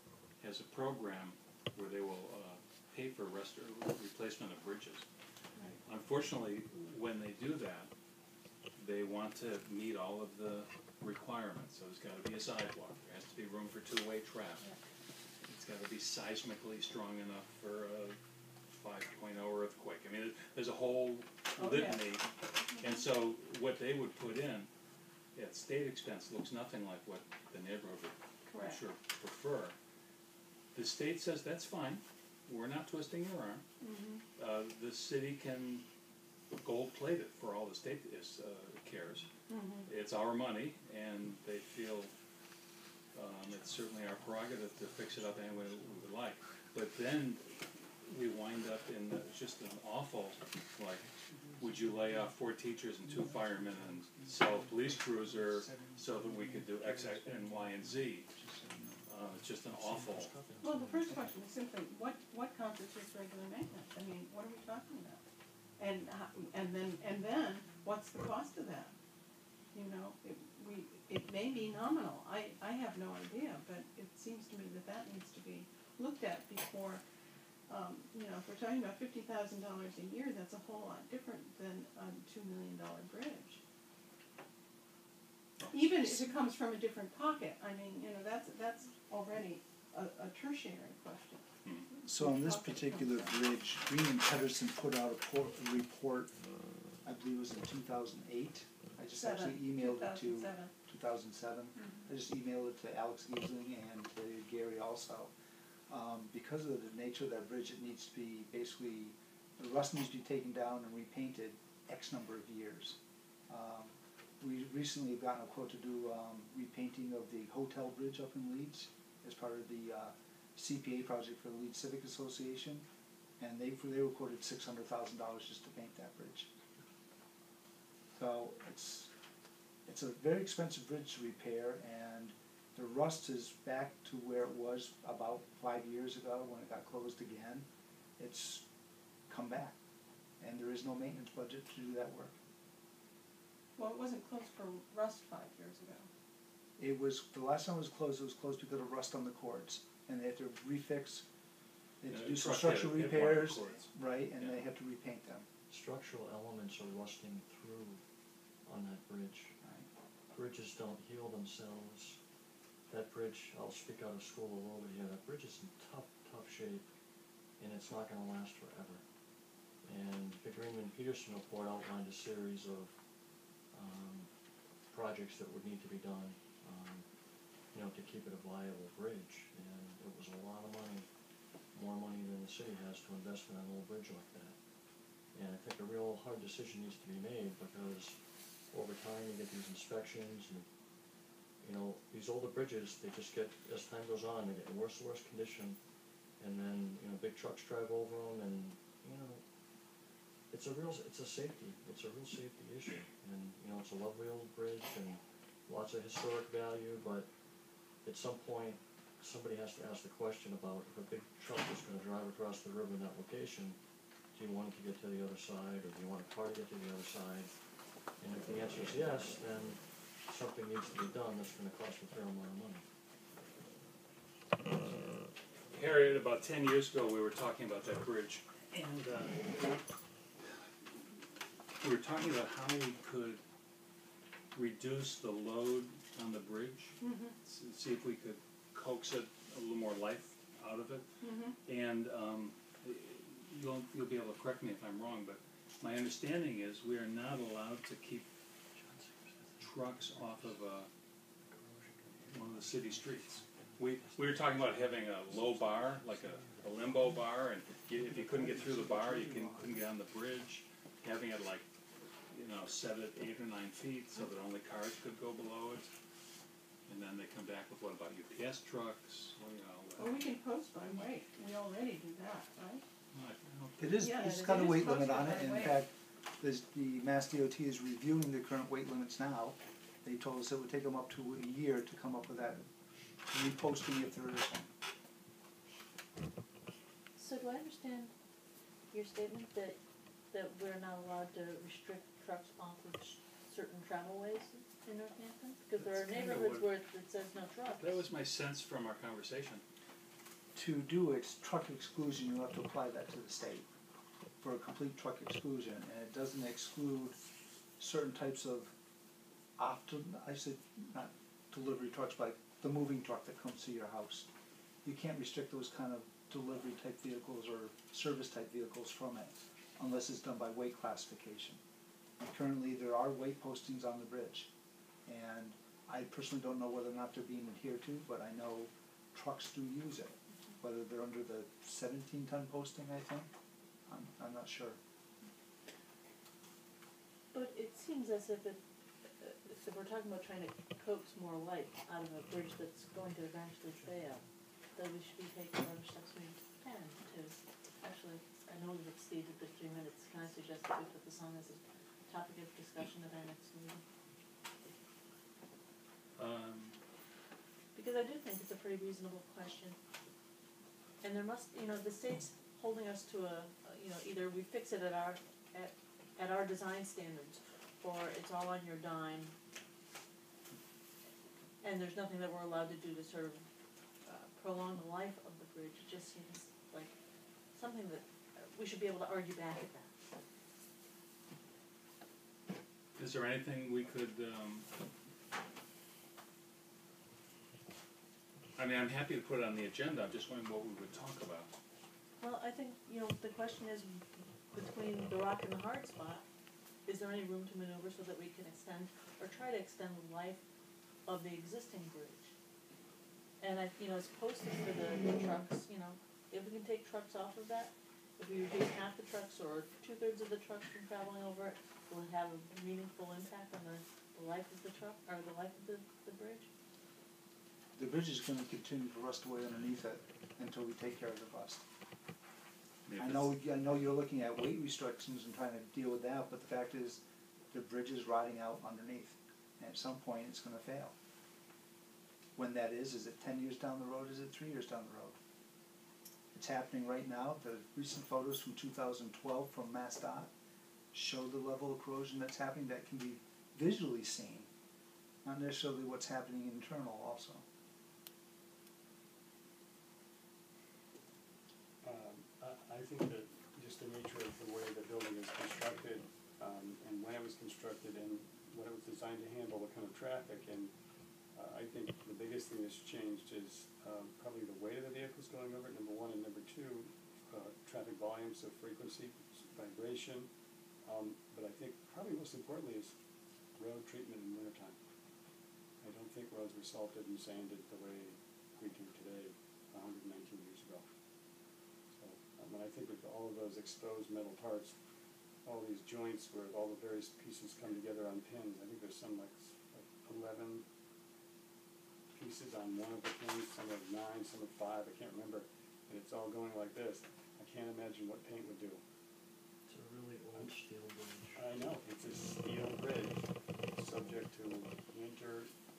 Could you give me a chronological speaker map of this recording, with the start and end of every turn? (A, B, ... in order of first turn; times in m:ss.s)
0:00.4-0:05.1 A
0:05.9-0:07.9 A
0:08.8-0:14.7 A
0:15.4-0:18.2 A
0:18.7-0:24.7 A
0:21.6-0:22.2 B
0:25.4-0:29.8 A
0:28.5-0:28.8 B
0:30.7-0:33.6 A
0:33.8-0:34.2 B
0:34.4-0:35.9 A
0:36.6-0:39.3 A
0:39.5-0:39.9 B
0:39.9-0:42.1 A
0:43.1-0:47.5 A
0:48.0-0:51.1 A
0:51.6-0:58.3 A
0:53.1-0:53.6 C
0:54.2-0:59.0 C
0:59.1-1:00.3 A
0:59.7-1:01.3 D
1:00.6-1:05.2 B
1:05.8-1:09.0 B
1:09.7-1:17.0 B
1:17.7-1:23.6 B
1:25.7-1:33.4 B
1:32.0-1:36.3 C
1:37.0-1:45.3 C
1:39.1-1:40.7 B
1:45.9-2:02.9 C
2:03.4-2:06.5 C
2:08.1-2:09.1 C
2:09.9-2:17.7 C
2:18.2-2:18.6 C
2:19.3-2:19.8 C
2:20.4-2:22.4 C
2:23.8-2:26.1 B
2:26.8-2:31.3 C
2:32.0-2:35.5 C
2:32.1-2:33.9 A
2:35.7-2:38.0 D
2:38.7-2:39.6 D
2:40.3-2:42.2 D
2:42.9-2:46.9 D
2:47.6-2:49.0 D
2:49.8-2:52.9 D
2:53.7-2:54.3 D
2:54.9-2:57.1 D
2:57.7-3:01.1 D
3:01.7-3:04.6 D
3:05.3-3:08.2 D
3:08.7-3:10.7 D
3:11.6-3:15.8 D
3:16.4-3:19.4 D
3:20.5-3:27.3 D
3:28.0-3:33.8 D
3:34.3-3:37.5 D
3:38.2-3:42.8 D
3:45.7-3:49.8 A
3:51.8-3:53.4 A
3:54.5-4:01.1 A
3:57.0-3:57.3 B
4:01.2-4:01.6 B
4:01.6-4:08.3 A
4:08.8-4:10.6 D
4:09.6-4:10.9 A
4:11.5-4:17.3 D
4:12.3-4:21.7 A
4:17.8-4:19.9 D
4:22.3-4:25.9 A
4:26.9-4:30.3 A
4:30.0-4:32.8 B
4:33.1-4:34.1 A
4:33.8-4:42.6 C
4:34.0-4:35.9 B
4:43.3-4:44.7 C
4:47.2-4:48.1 E
4:48.9-4:49.8 E
4:50.3-4:58.0 E
4:55.8-4:56.7 F
4:57.8-4:59.6 A
5:00.6-5:03.7 C
5:04.4-5:07.2 C
5:07.8-5:08.7 C
5:09.6-5:14.3 C
5:14.8-5:21.6 C
5:22.2-5:24.5 C
5:25.1-5:33.3 C
5:33.9-5:34.8 C
5:37.3-5:38.6 E
5:39.2-5:44.2 E
5:44.8-5:53.8 E
5:56.2-5:56.8 A
5:57.7-5:59.8 E
6:01.0-6:09.4 E
6:11.6-6:13.4 E
6:14.0-6:17.0 E
6:17.5-6:19.9 E
6:23.0-6:24.7 A
6:28.6-6:31.5 A
6:32.2-6:36.2 E
6:36.8-6:40.4 E
6:41.1-6:42.3 E
6:43.4-6:56.5 E
6:57.8-7:01.6 C
7:02.9-7:03.3 A
7:03.0-7:11.0 C
7:12.4-7:15.2 C
7:16.3-7:20.3 C
7:20.9-7:24.5 C
7:25.2-7:27.4 C
7:31.8-7:40.7 F
7:41.3-7:50.3 F
7:50.8-7:53.0 F
7:53.6-7:54.8 F
7:55.8-8:00.9 F
8:02.0-8:04.8 F
8:05.4-8:10.6 F
8:12.1-8:18.8 F
8:19.7-8:21.4 D
8:21.4-8:25.5 F
8:23.8-8:24.2 D